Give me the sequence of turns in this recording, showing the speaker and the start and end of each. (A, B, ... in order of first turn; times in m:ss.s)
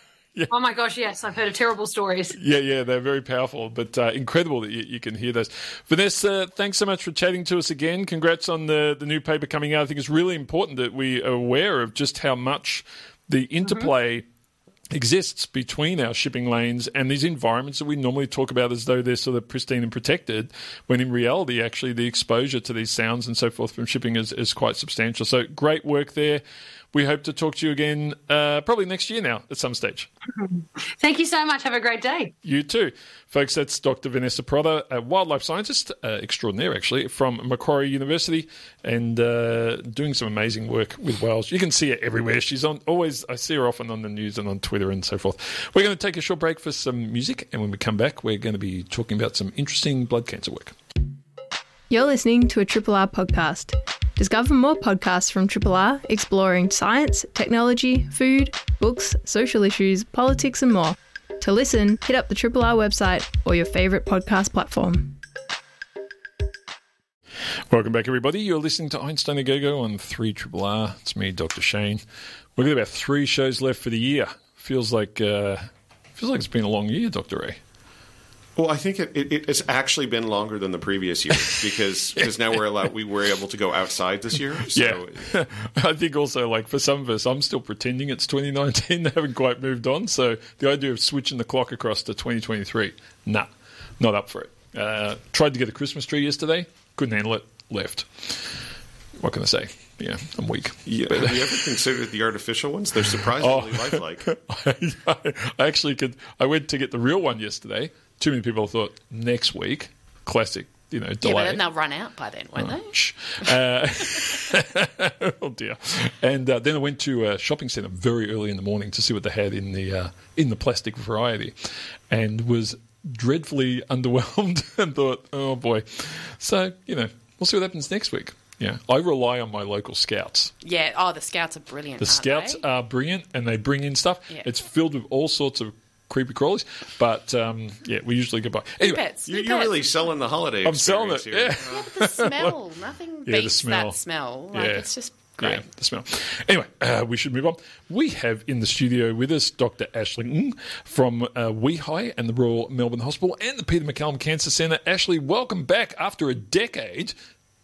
0:00.5-0:02.4 A
0:02.4-0:14.2 B
0:13.6-0:13.9 A
0:14.9-0:30.1 B
0:30.4-0:32.3 A
0:32.4-0:50.8 B
0:51.9-1:05.2 C
1:07.7-1:12.0 B
1:12.6-1:17.6 B
1:18.6-1:25.2 D
1:21.3-1:21.6 B
1:24.7-1:38.6 B
1:39.2-1:41.7 B
1:40.8-1:44.3 D
1:43.1-1:51.6 B
1:51.2-1:52.9 E
1:52.6-2:01.6 B
2:02.1-2:10.5 B
2:10.6-2:12.6 E
2:12.0-2:19.0 B
2:18.8-2:20.0 E
2:19.2-2:21.8 D
2:20.6-2:22.5 B
2:21.6-2:25.6 E
2:23.3-2:24.0 B
2:24.5-2:24.9 B
2:25.4-2:37.2 B